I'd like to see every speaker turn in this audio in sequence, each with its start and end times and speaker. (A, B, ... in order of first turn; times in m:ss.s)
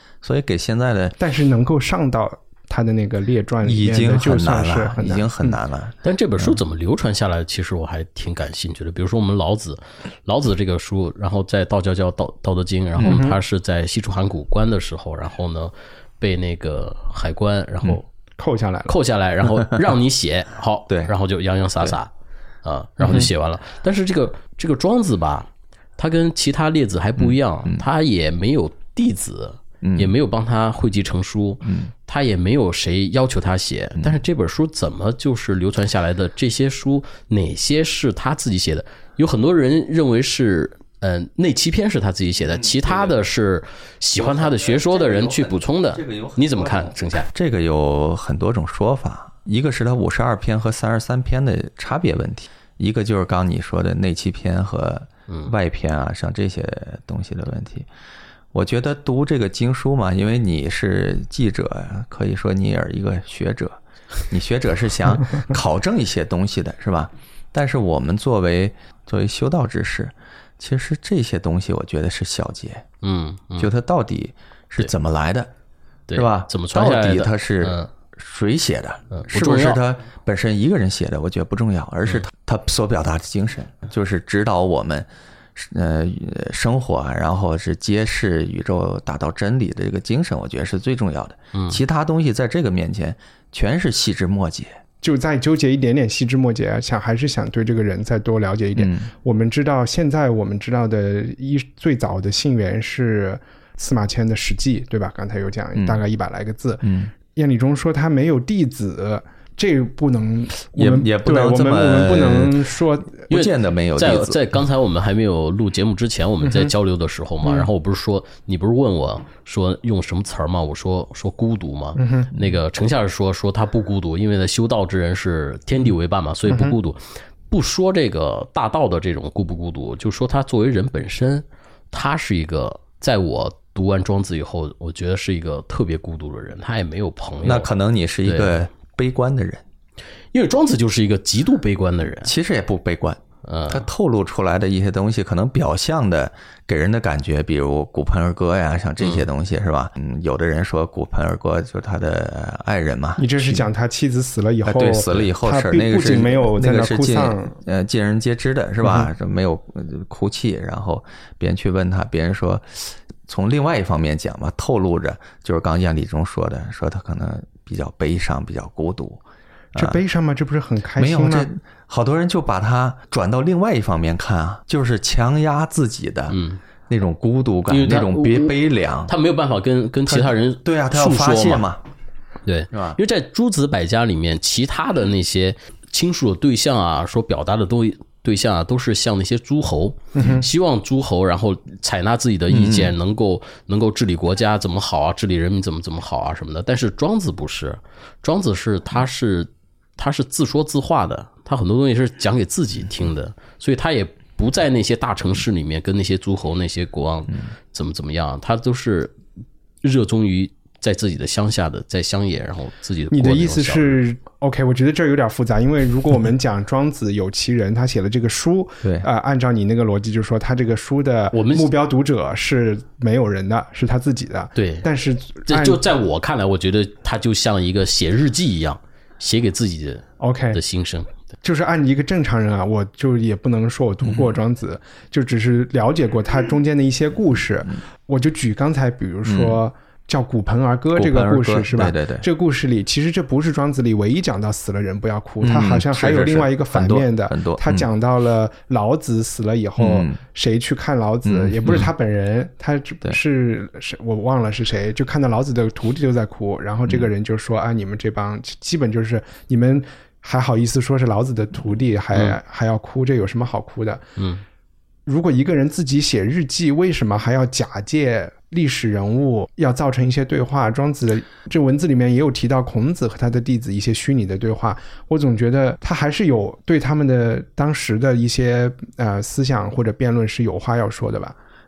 0:00.2-0:01.2 A
0:01.2-0:05.6 B
0:03.6-0:06.6 A
0:06.0-0:18.0 C
0:13.0-0:13.4 B
0:18.4-0:18.9 B
0:18.9-0:22.1 C
0:22.6-0:47.3 C
0:23.0-0:23.3 B
0:27.2-0:27.8 A
0:29.8-0:30.1 A
0:31.6-0:31.9 A
0:42.4-0:43.2 A
0:44.2-0:57.9 A
0:58.5-1:12.9 A
1:13.0-1:13.7 C
1:13.6-1:15.5 A
1:16.1-1:17.9 C
1:16.1-1:34.8 A
1:19.1-1:19.8 C
1:31.5-1:31.8 C
1:35.0-1:53.3 B
1:38.8-1:39.1 A
1:45.8-1:46.0 A
1:46.8-1:47.1 A
1:50.7-1:52.6 A
1:53.2-1:54.4 A
1:53.3-2:17.7 C
1:56.4-1:56.7 B
2:02.0-2:02.4 B
2:06.5-2:06.8 B
2:17.4-2:19.6 A
2:18.2-2:18.6 C
2:20.3-2:22.3 C
2:22.2-2:33.6 A
2:23.4-2:23.8 C
2:29.0-2:29.3 C
2:33.2-2:37.6 B
2:34.6-2:49.2 A
2:38.8-2:39.1 B
2:49.7-2:50.0 A
2:49.7-2:51.5 B
2:51.0-2:59.1 A
2:56.3-2:56.6 C
2:57.7-3:01.6 C
3:00.1-3:01.8 A
3:02.4-3:29.1 C
3:02.7-3:03.0 A
3:10.1-3:10.4 B
3:12.5-3:12.9 A
3:29.8-3:34.0 C
3:33.1-3:45.8 B
3:41.3-3:41.7 C
3:44.6-3:44.9 C
3:45.4-3:51.1 C
3:50.2-3:50.6 B
3:51.4-4:24.0 B
3:54.0-3:54.3 A
3:59.2-3:59.6 A
4:00.9-4:02.2 A
4:05.4-4:07.9 A
4:09.8-4:10.2 A
4:11.2-4:11.9 A
4:24.2-4:24.4 C
4:25.0-4:41.4 B